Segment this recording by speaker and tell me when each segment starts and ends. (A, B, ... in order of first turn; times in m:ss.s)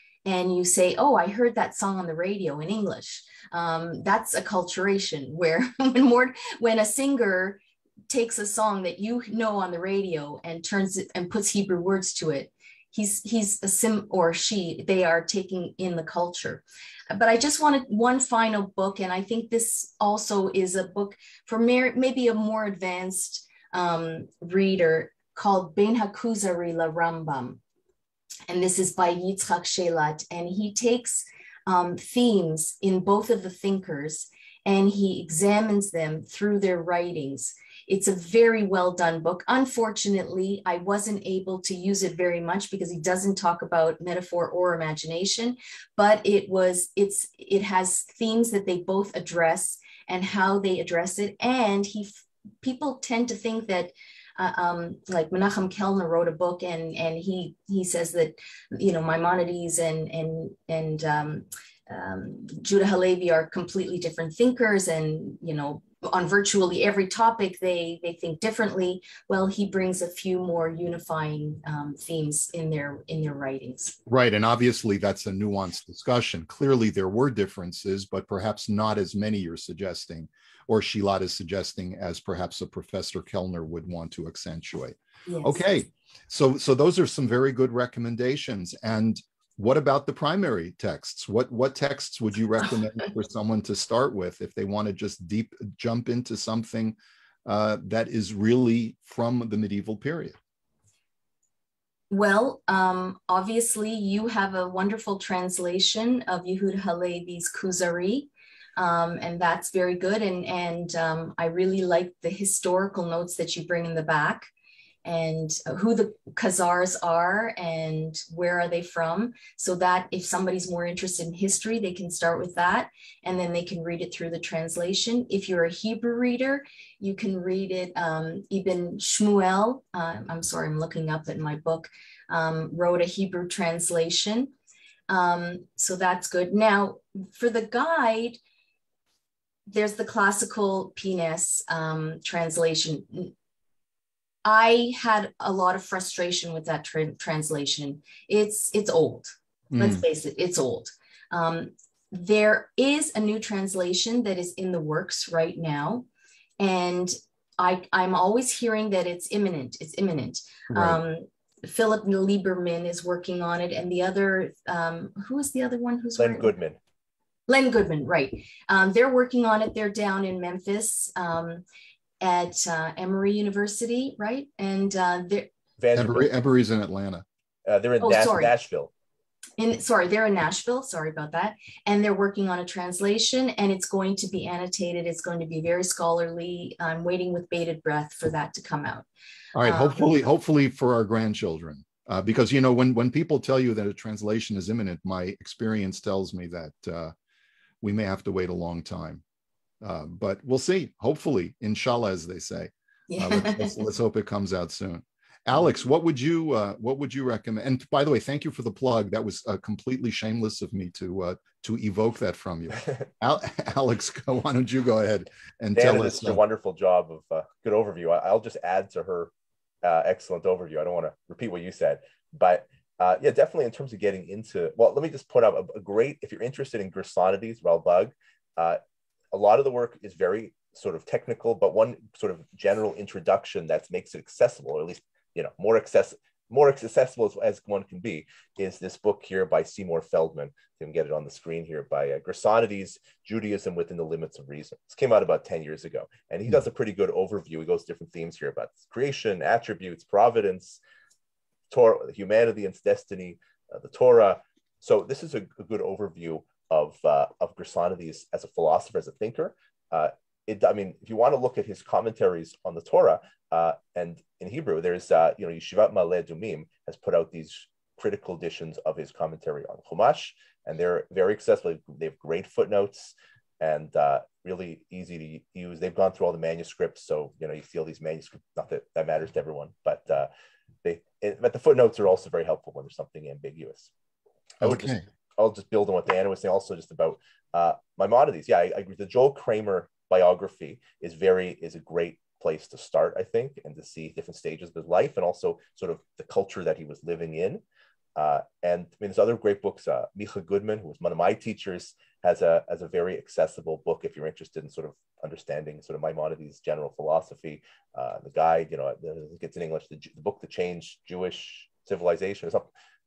0:00.2-0:27.6 A
0:28.5-1:14.0 A
1:14.1-1:40.4 B
1:25.3-1:25.6 A
1:42.1-1:54.5 A
1:55.0-2:14.5 A
2:15.1-2:18.4 A
2:19.7-2:23.3 A
2:24.4-2:36.1 A
2:29.7-2:30.0 B
2:36.6-2:46.5 A
2:40.7-2:41.0 B
2:46.2-2:46.8 C
2:47.5-2:51.6 A
2:52.2-2:55.5 A
2:55.8-2:56.3 C
2:55.9-2:57.2 B
2:57.7-2:58.9 C
2:58.0-2:58.6 A
2:59.6-3:09.1 A
3:09.6-3:17.1 B
3:09.6-3:10.1 A
3:17.8-3:19.2 B
3:19.8-3:36.4 B
3:23.1-3:23.8 A
3:35.8-3:39.3 C
3:39.8-3:48.8 C
3:49.3-4:10.8 C
4:11.7-4:40.3 C
4:40.8-4:43.9 C
4:44.6-4:57.6 C
4:44.6-4:45.0 B
4:58.2-5:12.7 C